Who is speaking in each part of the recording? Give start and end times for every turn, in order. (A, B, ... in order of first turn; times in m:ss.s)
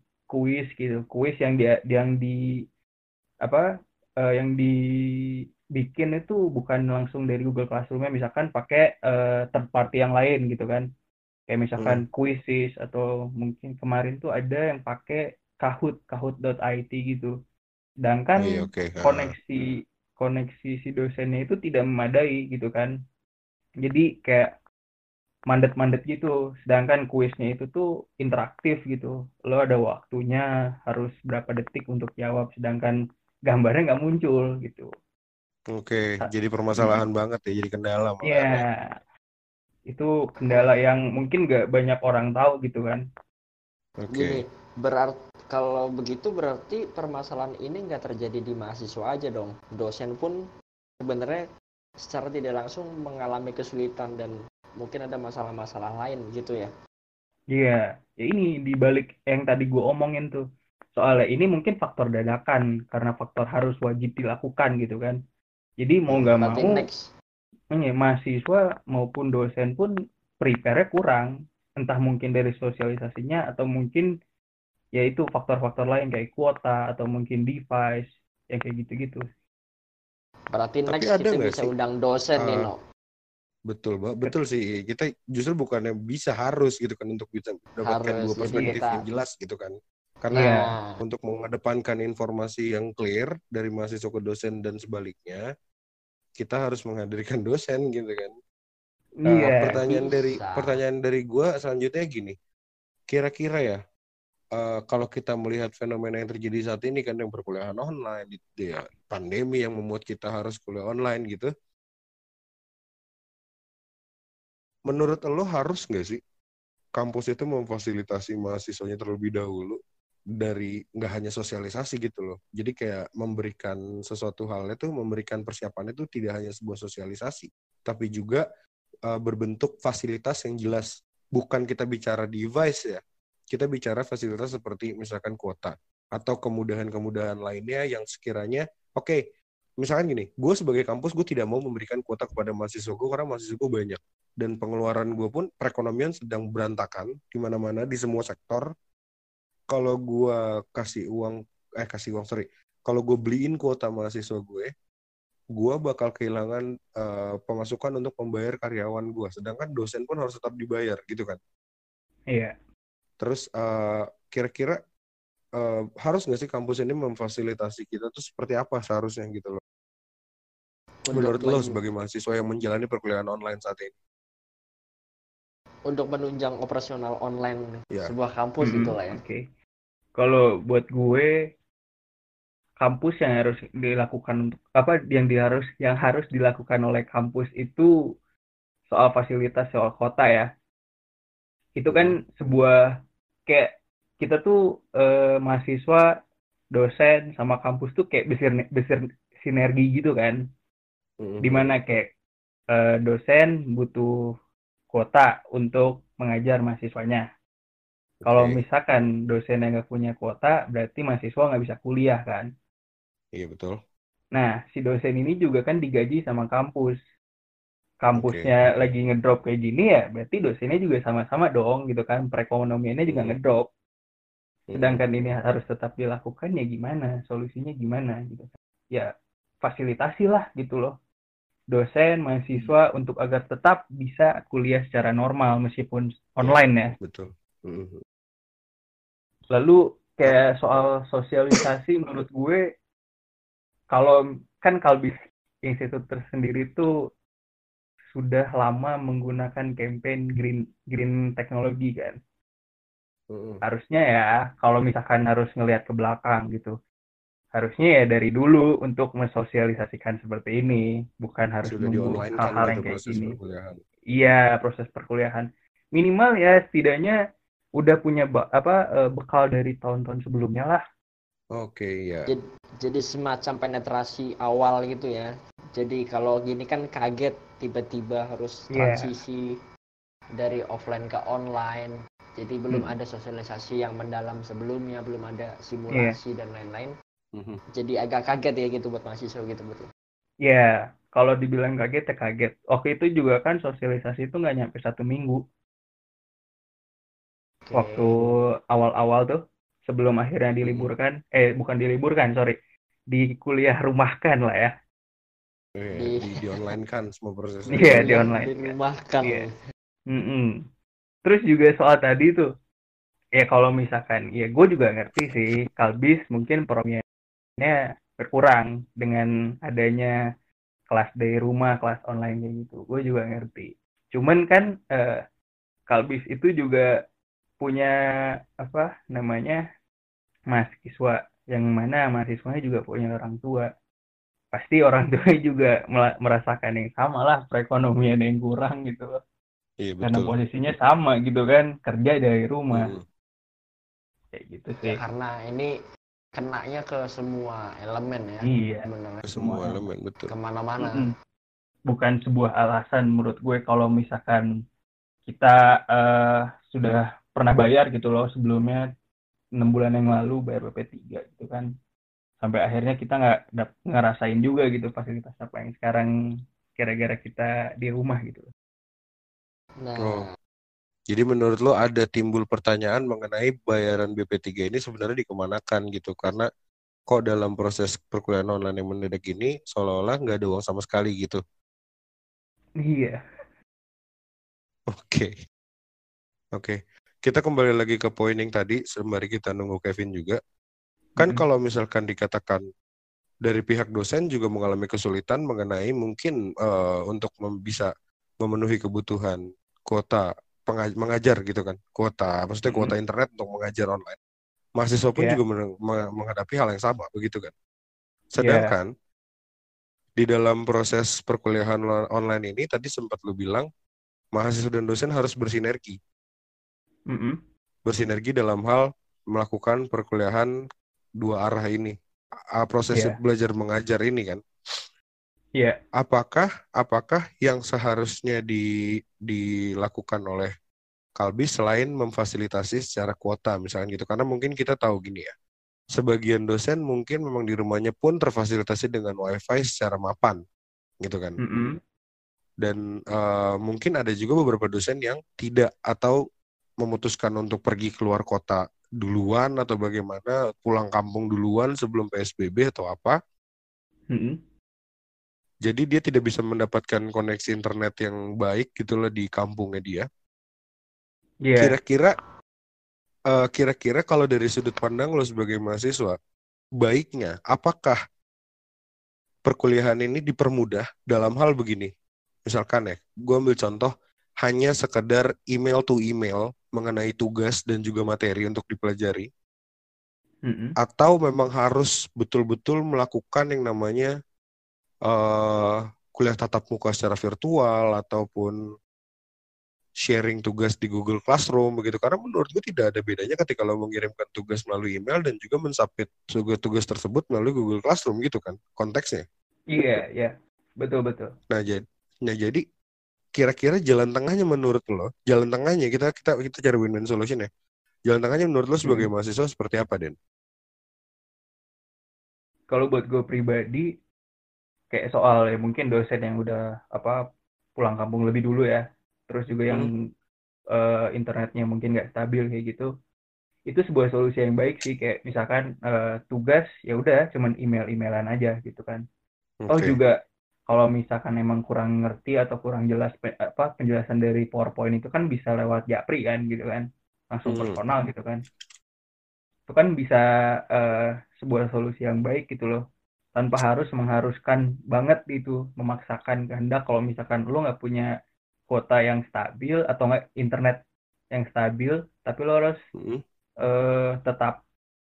0:00.3-0:02.4 A
0:04.2-0:04.7 A
0:05.8-0:10.8 A
0:11.5-0:17.3 A
0:11.8-0:12.0 B
0:18.0-0:22.9 A
0:18.4-0:19.3 B
0:23.8-0:24.5 A
0:25.5-0:33.0 A
0:33.5-0:34.9 A
0:35.7-0:38.6 B
0:36.2-0:37.0 A
0:38.2-0:38.7 A
0:39.9-0:43.0 A
0:44.0-0:44.4 B
0:44.1-0:50.4 C
0:51.0-0:51.4 C
0:52.0-0:56.7 C
0:57.5-1:00.4 A
1:00.9-1:05.2 A
1:05.8-1:06.8 A
1:06.2-1:07.1 C
1:07.7-1:14.1 A
1:15.0-1:19.2 A
1:20.5-1:22.8 C
1:20.9-1:21.7 B
1:22.4-1:22.7 B
1:23.7-1:35.4 B
1:27.8-1:29.0 C
1:30.3-1:31.0 C
1:30.3-1:30.7 A
1:36.4-1:38.4 B
1:39.2-1:39.8 A
1:39.2-1:42.4 B
1:39.8-1:40.8 C
1:43.1-1:43.8 B
1:44.5-1:51.5 B
1:54.9-1:56.2 B
1:57.0-1:59.8 B
2:00.4-2:08.4 B
2:09.1-2:19.2 B
2:19.8-2:28.7 B
2:29.7-2:34.7 B
2:35.5-2:41.4 B
2:43.2-2:44.8 B
2:45.6-2:49.6 B
2:51.0-2:51.8 C
2:51.1-2:53.9 B
2:55.9-2:59.2 C
2:58.6-2:59.4 A
3:00.2-3:01.3 A
3:02.8-3:07.9 A
3:08.9-3:10.5 A
3:11.8-3:12.7 A
3:11.9-3:12.2 B
3:13.5-3:16.0 A
3:16.7-3:20.4 A
3:21.2-3:21.7 B
3:21.4-3:22.0 A
3:22.7-3:24.1 A
3:24.9-3:27.2 A
3:28.2-3:28.6 B
3:28.2-3:32.5 A
3:33.3-3:33.8 B
3:34.3-3:37.0 A
3:38.0-3:43.7 A
3:38.1-3:38.5 B
3:43.1-3:43.4 B
3:44.7-3:45.0 B
3:44.8-3:49.1 A
3:49.6-3:50.9 A
3:51.7-3:57.0 A
3:56.4-3:58.0 B
3:59.5-4:02.6 A
4:03.9-4:05.1 A
4:05.6-4:06.9 A
4:08.1-4:12.2 A
4:13.3-4:13.6 B
4:13.6-4:16.7 A
4:17.5-4:23.3 A
4:21.6-4:23.8 B
4:24.1-4:27.2 A
4:27.8-4:30.8 A
4:31.6-4:32.3 B
4:32.3-4:39.5 C
4:38.7-4:39.1 A
4:40.4-4:46.9 C
4:47.3-4:47.6 B
4:47.8-4:49.9 C
4:50.4-4:55.4 A
4:57.6-4:58.1 C
4:57.7-5:02.5 A
5:03.1-5:04.7 A
5:05.8-5:08.2 B
5:05.9-5:06.4 C
5:07.7-5:09.5 C
5:07.7-5:09.4 A
5:10.1-5:10.6 A
5:11.2-5:12.4 A
5:13.4-5:17.0 A
5:17.6-5:20.1 A
5:20.9-5:25.2 A
5:25.9-5:26.8 A
5:27.6-5:27.9 A
5:28.6-5:29.6 A
5:30.5-5:33.7 A
5:34.5-5:39.1 A
5:39.8-5:40.3 B
5:40.0-5:42.9 A
5:42.7-5:43.0 B
5:44.3-5:45.0 A
5:44.8-5:45.7 C
5:46.3-5:49.7 C
5:48.4-5:48.9 A
5:49.2-5:50.3 B
5:50.3-5:51.0 C
5:50.8-5:51.1 A
5:51.9-5:54.4 A
5:55.3-5:58.8 A
5:59.6-6:01.7 A
6:02.4-6:06.1 A
6:06.8-6:08.5 A
6:09.8-6:10.3 C
6:10.0-6:10.2 B
6:11.1-6:16.5 B
6:17.1-6:21.4 B
6:22.8-6:23.2 A
6:24.9-6:25.3 B
6:26.5-6:30.4 B
6:31.2-6:31.4 A
6:31.2-6:32.6 B
6:33.4-6:37.9 B
6:38.4-6:44.2 B
6:42.7-6:42.9 A
6:44.8-6:47.5 B
6:48.3-6:48.9 B
6:48.4-6:48.7 A
6:50.2-6:53.7 B
6:54.3-6:56.0 B
6:57.1-6:57.4 A
6:57.8-7:00.5 B
7:01.2-7:02.0 B
7:02.6-7:04.8 B
7:02.9-7:03.2 A
7:06.0-7:08.6 B
7:09.3-7:10.5 B
7:11.2-7:15.3 B
7:15.9-7:20.4 B
7:21.0-7:21.4 B
7:21.4-7:21.8 A
7:22.6-7:26.2 B
7:26.8-7:33.2 B
7:34.1-7:34.4 A
7:35.6-7:40.1 B
7:41.4-7:41.7 A
7:41.6-7:42.2 B
7:43.3-7:46.2 B
7:46.8-7:48.0 B
7:49.4-7:51.9 B
7:52.4-7:53.9 B
7:54.4-7:59.3 B
8:00.4-8:00.7 A
8:00.8-8:04.1 B
8:05.1-8:08.6 B
8:10.0-8:19.2 B
8:19.7-8:21.3 A
8:21.5-8:22.6 B
8:23.3-8:27.5 B
8:28.1-8:30.1 B
8:32.7-8:33.9 A
8:34.9-8:37.2 A
8:37.8-8:39.9 A
8:40.7-8:42.9 A
8:43.7-8:49.0 A
8:49.6-8:50.0 B
8:49.7-8:50.1 A
8:50.7-8:58.4 A
8:57.5-8:57.8 B
8:59.7-9:00.2 A
9:00.7-9:02.8 A
9:03.3-9:08.1 A
9:08.7-9:12.8 A
9:12.9-9:13.2 B
9:13.6-9:14.6 A